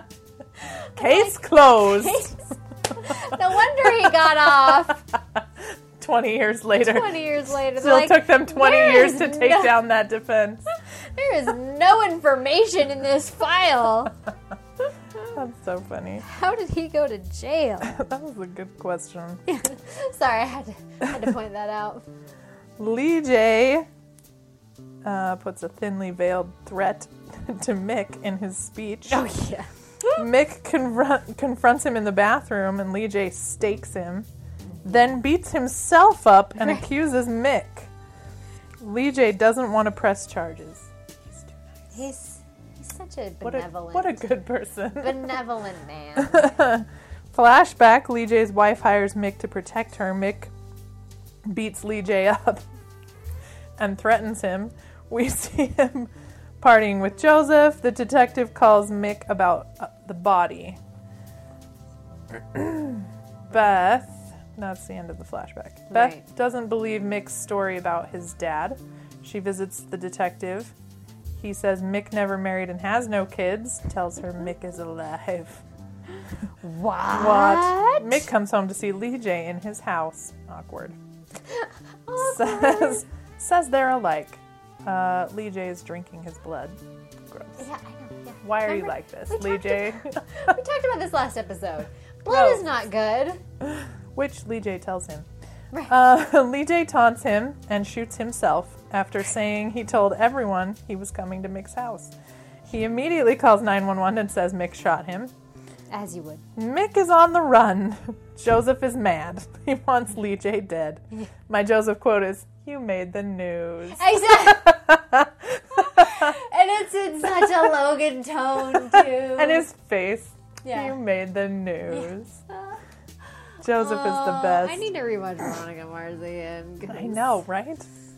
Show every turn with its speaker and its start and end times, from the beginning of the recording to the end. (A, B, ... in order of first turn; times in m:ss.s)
0:00.6-0:05.0 A
0:01.0-0:02.3 B
0:05.4-0:07.2 B
0:06.8-0:09.8 A
0:07.7-0:10.6 B
0:11.0-0:14.1 A
0:14.9-0:15.3 A
0:15.3-0:16.2 B
0:16.2-0:18.0 A
0:17.9-0:19.4 B
0:19.5-0:22.1 A
0:22.8-0:23.9 B
0:25.0-0:29.2 B
0:29.1-0:30.2 A
0:30.1-0:34.3 B
0:34.8-0:37.9 B
0:36.6-0:36.8 A
0:38.8-0:41.9 B
0:41.9-0:44.2 A
0:43.4-0:45.4 B
0:45.0-0:46.5 A
0:46.2-0:50.5 B
0:51.4-0:52.6 B
0:53.8-1:00.8 B
1:02.3-1:10.7 B
1:05.9-1:06.2 A
1:11.4-1:15.6 B
1:16.6-1:18.3 A
1:17.1-1:21.0 B
1:21.4-1:23.0 A
1:22.2-1:26.8 B
1:27.3-1:27.6 B
1:27.6-1:33.4 A
1:28.4-1:30.5 B
1:32.3-1:32.6 B
1:33.6-1:35.2 B
1:35.9-1:42.1 B
1:42.7-1:45.3 B
1:45.9-1:46.4 A
1:46.6-1:56.4 B
1:53.9-1:54.8 A
1:55.7-1:59.7 A
1:58.8-2:02.4 B
2:00.6-2:01.0 A
2:01.9-2:02.8 A
2:03.4-2:07.3 A
2:03.6-2:04.8 B
2:06.9-2:07.9 B